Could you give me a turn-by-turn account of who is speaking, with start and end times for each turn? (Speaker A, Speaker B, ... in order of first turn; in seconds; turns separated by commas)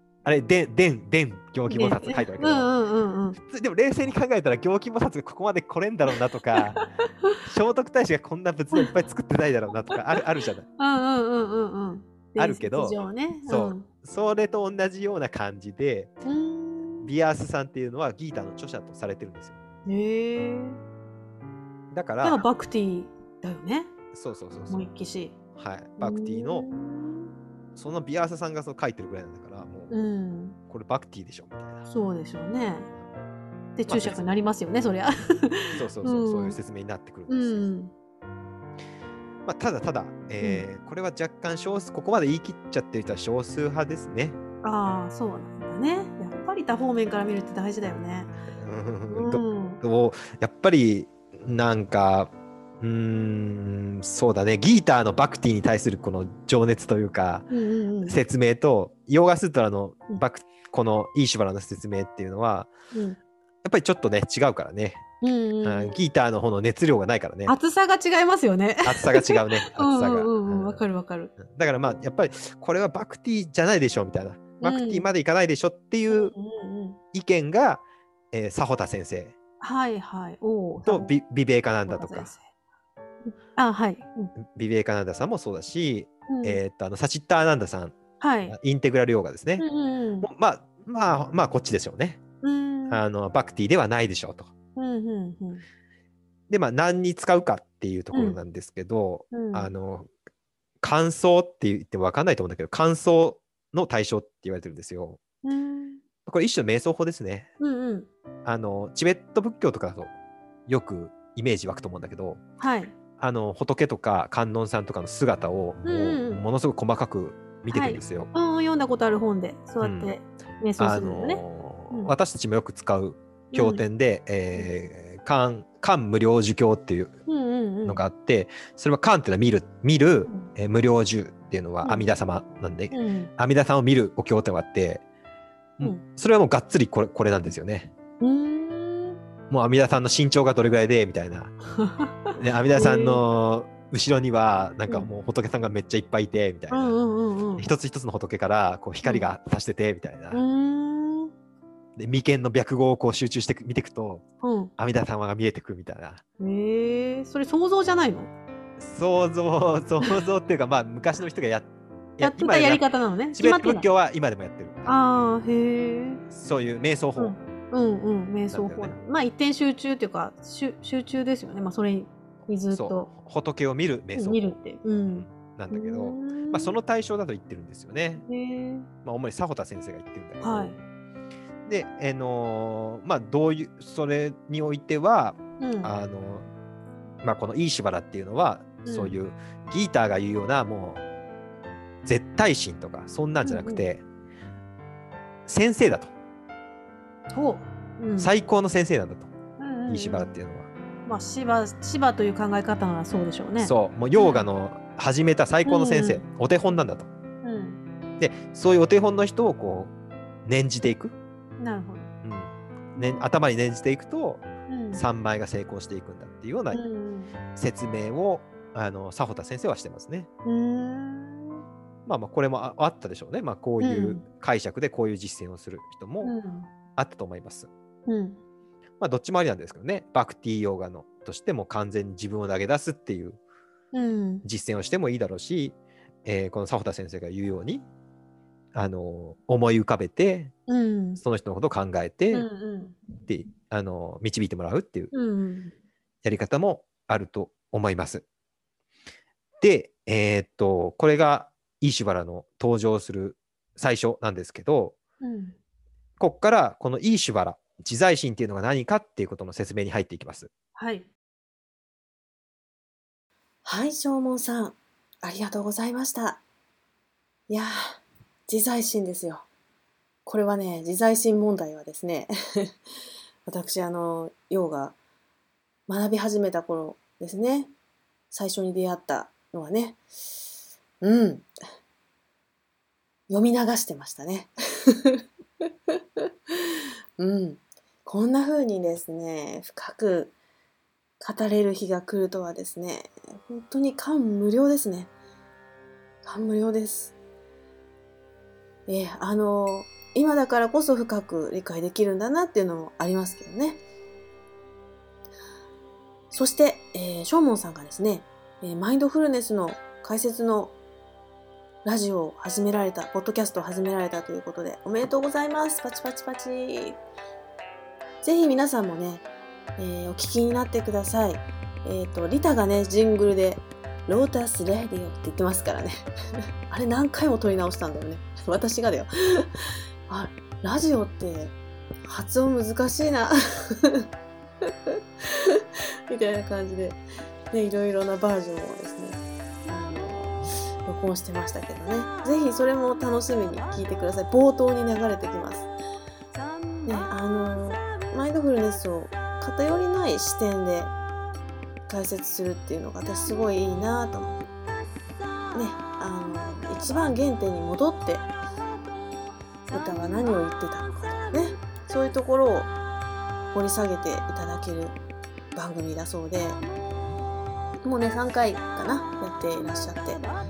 Speaker A: 0.2-2.7, Speaker B: 1.7-3.4, Speaker A: 3.4-6.8, Speaker B: 6.6-7.4, Speaker A: 7.4-10.6, Speaker B: 10.8-13.9, Speaker A: 12.4-16.1, Speaker B: 16.2-17.1, Speaker A: 17.0-19.6, Speaker B: 19.9-20.8, Speaker A: 21.9-22.4, Speaker B: 22.2-23.9, Speaker A: 24.1-24.8, Speaker B: 24.7-25.3, Speaker A: 25.6-26.7, Speaker B: 26.0-27.3, Speaker A: 27.7-29.9, Speaker B: 29.9-30.6, Speaker A: 30.7-31.8, Speaker B: 31.9-32.9, Speaker B: 33.8-36.6, Speaker A: 33.9-34.3, Speaker A: 35.7-37.7, Speaker B: 37.3-37.9, Speaker A: 39.4-44.4, Speaker B: 44.6-48.3, Speaker A: 48.5-57.5, Speaker B: 49.1-49.8, Speaker B: 57.5-58.1, Speaker A: 58.0-62.7, Speaker B: 62.9-63.2, Speaker A: 63.6-65.0, Speaker B: 65.2-66.0, Speaker A: 65.6-67.5, Speaker B: 67.5-71.3, Speaker A: 68.8-70.8, Speaker A: 71.4-76.3, Speaker B: 74.6-75.1, Speaker B: 76.1-77.0, Speaker A: 77.1-79.3, Speaker B: 79.6-81.1, Speaker A: 80.8-82.3, Speaker B: 81.9-82.5, Speaker B: 83.2-84.3, Speaker A: 84.4-89.7, Speaker B: 86.3-86.6, Speaker B: 88.2-88.5, Speaker B: 89.6-90.3, Speaker A: 90.2-92.2, Speaker B: 92.4-93.0, Speaker A: 92.9-94.5, Speaker B: 94.8-95.6, Speaker A: 96.5-100.1, Speaker B: 98.1-98.4, Speaker B: 99.3-99.7, Speaker A: 100.8-105.2, Speaker B: 105.4-106.0, Speaker A: 106.3-107.5, Speaker B: 107.6-108.1, Speaker A: 108.4-110.1, Speaker A: 110.7-112.4, Speaker B: 112.6-112.9, Speaker A: 113.2-118.3, Speaker B: 115.8-116.4, Speaker B: 117.7-122.1, Speaker A: 119.8-120.1, Speaker A: 120.8-127.2, Speaker B: 123.5-123.8, Speaker B: 127.3-128.0, Speaker A: 127.8-135.0, Speaker B: 132.9-133.3, Speaker A: 135.8-137.9, Speaker B: 138.2-139.2, Speaker A: 139.5-141.6, Speaker B: 141.8-143.2, Speaker A: 142.3-146.9, Speaker B: 146.7-147.7, Speaker A: 147.6-150.4, Speaker B: 149.0-149.3, Speaker B: 150.3-151.3, Speaker A: 152.0-154.2, Speaker B: 154.4-154.7, Speaker A: 154.8-156.2, Speaker B: 156.4-158.3, Speaker A: 158.8-164.9, Speaker B: 162.2-163.9, Speaker B: 164.9-166.2, Speaker A: 166.3-167.4, Speaker B: 167.2-173.1, Speaker A: 168.5-169.0, Speaker A: 172.7-174.6, Speaker B: 174.1-176.8, Speaker A: 175.1-178.2, Speaker B: 178.2-178.9, Speaker A: 179.1-180.8, Speaker B: 180.4-180.8, Speaker A: 181.7-186.4, Speaker B: 185.6-185.9, Speaker A: 187.2-191.0, Speaker B: 188.8-189.1, Speaker A: 192.0-194.0, Speaker B: 193.4-193.8, Speaker A: 195.4-196.1, Speaker B: 197.3-198.3, Speaker A: 198.2-199.3, Speaker B: 199.6-200.3, Speaker A: 199.9-200.7, Speaker B: 201.1-204.5, Speaker A: 203.6-207.1, Speaker B: 205.6-206.2, Speaker B: 207.4-207.8, Speaker A: 208.2-209.9, Speaker A: 210.4-211.2, Speaker B: 211.6-212.1, Speaker A: 212.2-216.8, Speaker B: 214.7-215.0, Speaker B: 216.7-217.3, Speaker A: 217.5-220.3, Speaker B: 220.4-221.6, Speaker A: 222.1-226.4, Speaker B: 223.8-224.2, Speaker B: 226.2-226.7, Speaker A: 227.0-227.7, Speaker B: 228.1-228.4, Speaker A: 229.0-233.4, Speaker B: 233.9-234.4, Speaker A: 234.4-237.9, Speaker A: 238.7-240.5, Speaker B: 240.7-241.2, Speaker A: 241.2-242.5, Speaker B: 242.3-243.0, Speaker A: 243.3-245.1, Speaker B: 245.1-245.7, Speaker A: 246.2-248.2, Speaker A: 249.6-255.0, Speaker B: 255.2-255.6, Speaker A: 256.2-260.5, Speaker B: 260.8-261.1, Speaker C: 263.6-266.4, Speaker C: 267.5-269.4, Speaker C: 270.3-272.7, Speaker C: 273.4-274.9, Speaker C: 275.9-277.7, Speaker C: 278.3-280.0, Speaker C: 281.0-281.5, Speaker C: 283.3-285.2, Speaker C: 285.9-290.3, Speaker C: 291.2-295.1, Speaker C: 296.2-297.1, Speaker C: 298.9-303.8, Speaker C: 306.3-310.7, Speaker C: 311.8-317.0, Speaker C: 318.2-319.2, Speaker C: 319.8-326.1, Speaker C: 326.7-329.5, Speaker C: 330.1-331.6, Speaker C: 332.1-334.1, Speaker C: 334.6-337.0, Speaker C: 337.5-345.7, Speaker C: 346.9-350.9, Speaker C: 351.9-354.4, Speaker C: 355.5-358.3, Speaker C: 359.7-362.7, Speaker C: 363.5-364.9, Speaker C: 365.6-366.6, Speaker C: 367.8-370.3